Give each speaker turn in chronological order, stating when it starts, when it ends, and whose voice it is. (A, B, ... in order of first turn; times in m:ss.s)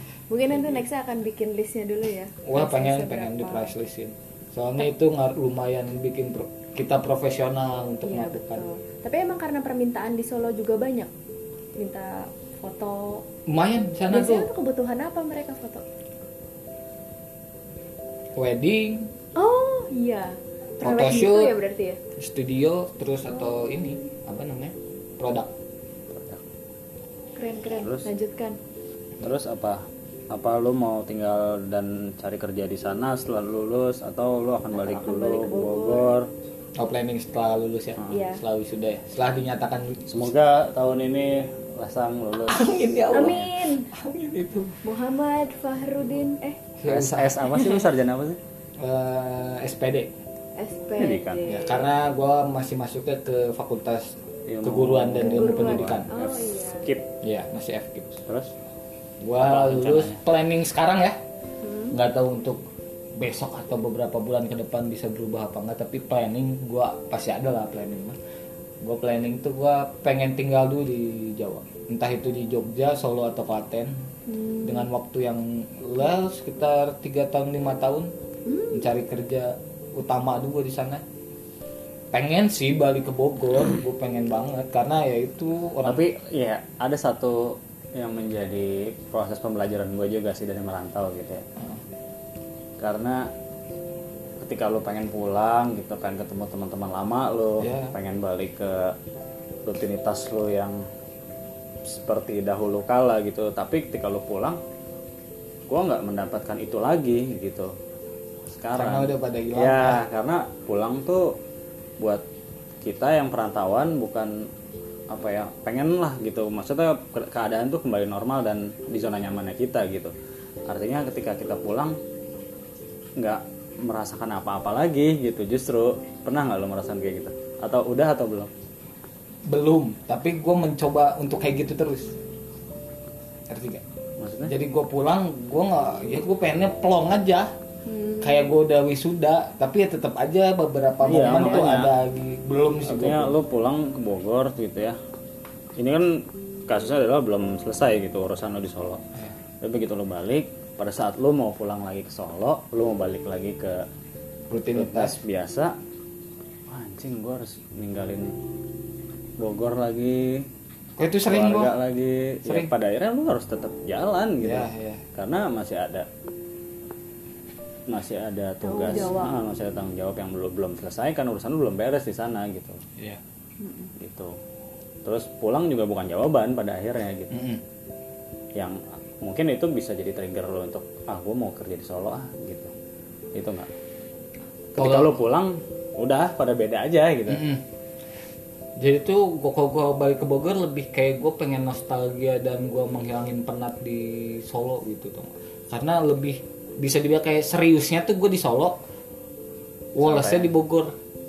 0:00.3-0:03.7 A
0:00.5-0:00.8 B
0:02.4-0:08.6 B
0:08.0-0:11.1 A
0:11.8-0:13.2 A
0:13.5-0:14.5 B
0:14.1-0:15.8 A
0:18.4-0:19.1 B
0:19.4-0:22.0 A
0:20.8-0:21.5 B
0:22.2-0:25.5 B
0:26.1-0:26.4 C
0:27.4-0:28.6 A
0:27.8-0:28.1 C
0:29.2-0:36.3 C
0:34.7-0:36.1 A
0:36.8-0:40.3 B
0:38.1-0:38.4 A
0:40.1-0:43.5 C
0:42.5-0:44.8 B
0:43.1-0:43.9 A
0:44.8-0:46.6 A
0:46.8-0:47.4 B
0:46.9-0:48.4 C
0:47.5-0:47.9 A
0:48.8-0:50.1 B
0:50.6-0:51.9 A
0:51.0-0:51.5 C
0:51.5-0:56.1 B
0:54.5-0:57.1 C
0:55.2-0:56.9 A
0:57.2-0:58.2 B
0:58.2-0:58.5 C
0:59.2-1:01.2 B
0:59.4-1:00.2 C
1:01.6-1:01.9 A
1:01.9-1:02.6 B
1:03.2-1:08.2 B
1:08.8-1:13.9 B
1:14.3-1:14.9 A
1:14.6-1:18.1 B
1:18.4-1:18.9 A
1:18.7-1:21.0 B
1:22.1-1:26.0 B
1:25.8-1:31.4 C
1:32.8-1:33.3 C
1:34.4-1:38.9 C
1:37.6-1:37.9 B
1:39.6-1:40.8 C
1:41.8-1:44.6 C
1:45.7-1:47.7 C
1:48.5-1:51.4 C
1:48.7-1:50.0 B
1:52.8-1:54.5 C
1:55.1-2:00.1 C
2:00.7-2:02.0 C
2:03.2-2:08.5 C
2:09.5-2:12.1 B
2:13.5-2:13.8 B
2:14.2-2:14.5 C
2:14.4-2:17.5 B
2:17.8-2:18.5 A
2:18.2-2:23.3 B
2:21.0-2:21.9 C
2:21.1-2:21.7 A
2:22.8-2:25.0 C
2:25.8-2:29.0 C
2:29.6-2:33.8 C
2:34.5-2:35.2 B
2:34.7-2:35.8 C
2:36.7-2:38.4 C
2:39.4-2:40.5 C
2:41.0-2:41.7 B
2:41.3-2:46.1 C
2:44.4-2:45.0 B
2:47.9-2:52.8 C
2:48.6-2:49.4 A
2:53.6-2:53.9 A
2:54.0-2:54.4 C
2:55.0-2:57.3 C
2:57.3-2:57.6 B
2:58.5-3:02.7 C
3:03.3-3:03.7 C
3:04.7-3:07.4 C
3:04.8-3:05.2 B
3:07.3-3:07.6 B
3:08.8-3:18.8 B
3:20.0-3:20.9 B
3:20.0-3:20.5 C